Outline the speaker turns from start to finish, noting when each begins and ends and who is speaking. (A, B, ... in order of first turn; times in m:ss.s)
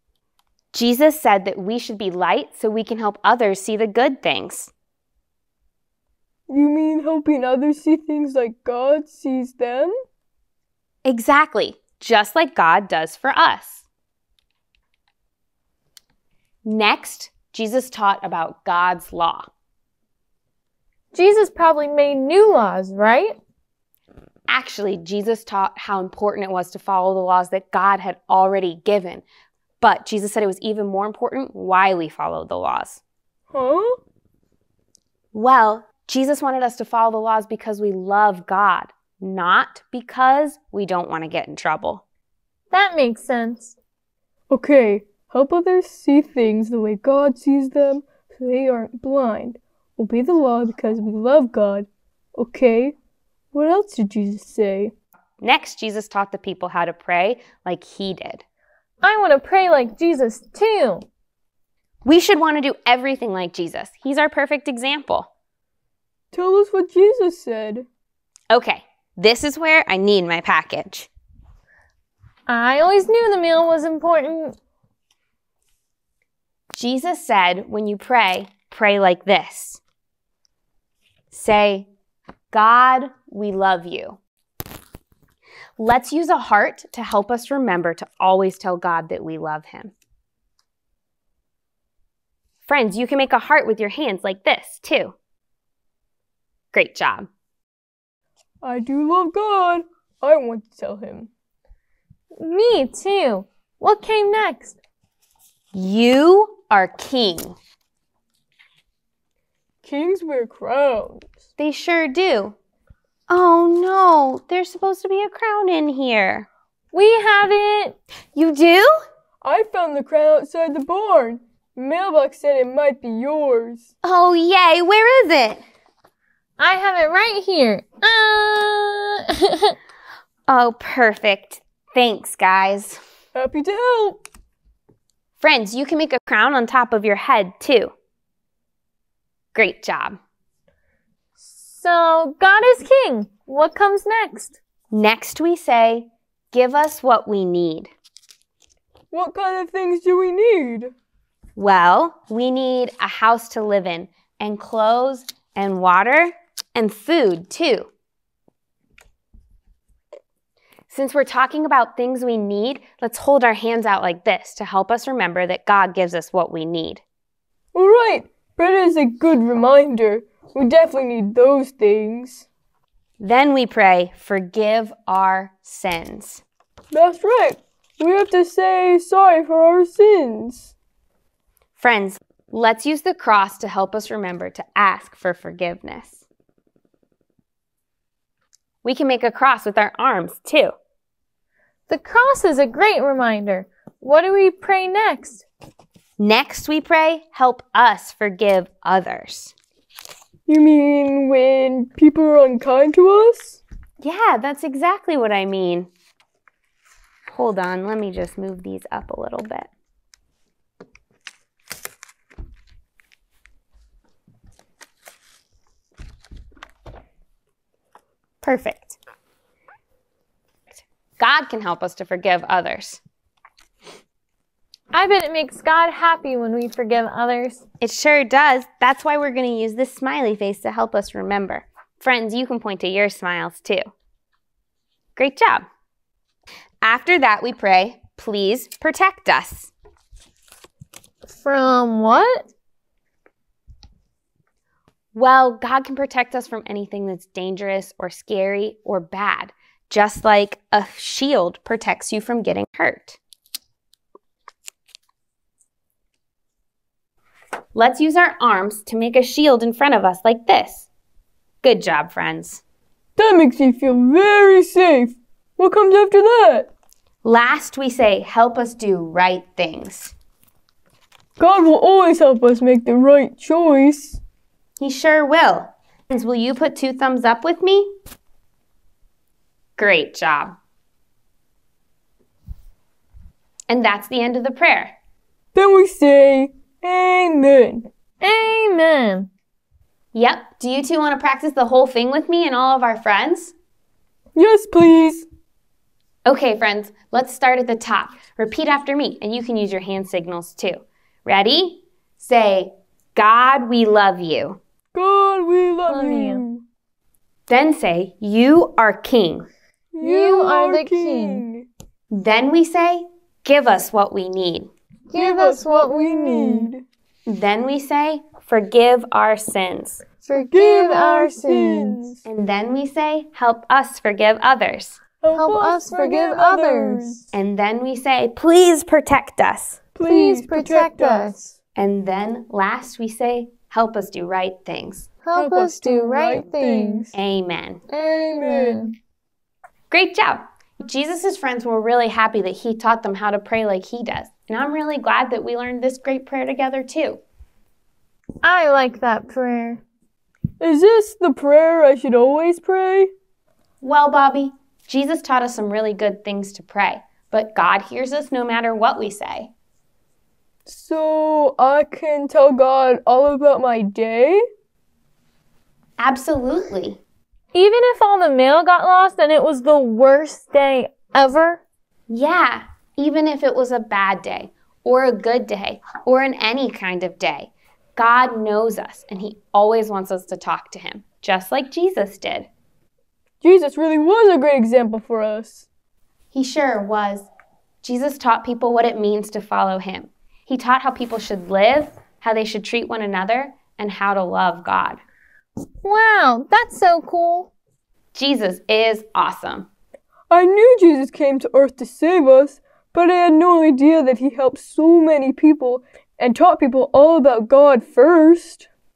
0:00.7-0:04.7 A
0:06.5-0:09.9 B
0:11.0-0:13.8 A
0:16.6-0:19.5 A
0:21.1-0:23.4 C
0:24.5-0:29.2 A
0:29.8-0:33.0 A
0:33.5-0:34.0 B
0:35.3-0:42.0 A
0:42.7-0:43.7 C
0:44.5-0:53.0 B
0:53.5-0:54.9 B
0:55.4-0:58.4 A
0:59.0-1:01.0 C
1:02.0-1:05.3 A
1:06.3-1:07.8 B
1:08.5-1:11.1 A
1:12.5-1:14.5 C
1:16.7-1:19.8 A
1:21.3-1:21.9 A
1:22.5-1:24.2 A
1:25.8-1:29.9 A
1:32.6-1:35.1 A
1:36.7-1:37.3 A
1:38.6-1:41.3 B
1:42.4-1:44.8 C
1:45.7-1:47.6 A
1:49.8-1:51.4 B
1:51.6-1:52.6 A
1:53.3-1:56.5 A
1:56.9-1:58.0 C
1:58.3-1:58.9 A
1:59.4-2:03.9 B
2:04.0-2:05.6 A
2:06.6-2:09.7 C
2:10.5-2:13.0 A
2:13.3-2:14.2 B
2:15.4-2:17.9 A
2:19.5-2:20.2 A
2:21.5-2:24.6 C
2:24.9-2:27.9 A
2:29.1-2:30.9 B
2:31.6-2:37.9 A
2:40.9-2:47.0 A
2:47.7-2:52.4 B
2:53.2-2:56.4 A
2:56.9-3:00.7 B
3:01.8-3:06.2 A
3:08.8-3:10.7 A
3:11.9-3:15.4 C
3:16.2-3:19.5 A
3:20.5-3:23.6 B
3:24.0-3:25.9 A
3:27.3-3:29.7 A
3:38.4-3:39.0 A
3:40.7-3:43.0 A
3:44.9-3:47.6 C
3:47.8-3:53.9 A
3:55.2-3:55.6 A
3:56.8-3:59.7 A
4:01.3-4:02.5 C
4:05.1-4:13.2 A
4:17.7-4:20.9 A
4:21.6-4:22.6 A
4:23.2-4:26.7 B
4:27.2-4:30.1 A
4:31.4-4:34.2 B
4:34.8-4:37.9 A
4:39.8-4:40.6 A
4:43.7-4:45.0 A
4:45.5-4:47.8 B
4:48.2-4:49.3 C
4:50.1-4:53.5 A
4:54.3-4:55.2 B
4:56.2-5:04.6 A
5:04.9-5:06.6 B
5:05.9-5:06.4 C
5:07.5-5:09.5 A
5:09.9-5:11.7 B
5:10.0-5:11.4 C
5:12.1-5:14.7 A
5:15.1-5:16.7 C
5:15.1-5:16.8 B
5:17.3-5:20.0 A
5:20.2-5:22.0 C
5:20.3-5:22.2 B
5:22.2-5:25.0 A
5:25.2-5:27.2 B
5:25.3-5:27.2 C
5:27.3-5:29.8 A
5:29.9-5:31.3 B
5:30.0-5:31.5 C
5:31.8-5:35.1 A
5:35.2-5:37.0 C
5:35.3-5:37.1 B
5:37.1-5:37.8 A
5:37.9-5:38.9 C
5:38.0-5:38.9 B
5:39.9-5:47.2 A
5:48.4-5:49.8 C
5:50.6-5:53.1 B
5:53.8-5:59.5 A
6:00.7-6:04.4 B
6:06.0-6:07.0 A
6:07.5-6:11.6 C
6:12.1-6:22.5 A
6:23.4-6:25.7 B
6:26.3-6:27.3 A
6:27.8-6:35.0 A
6:35.8-6:37.5 C
6:38.1-6:39.7 A
6:40.3-6:48.6 B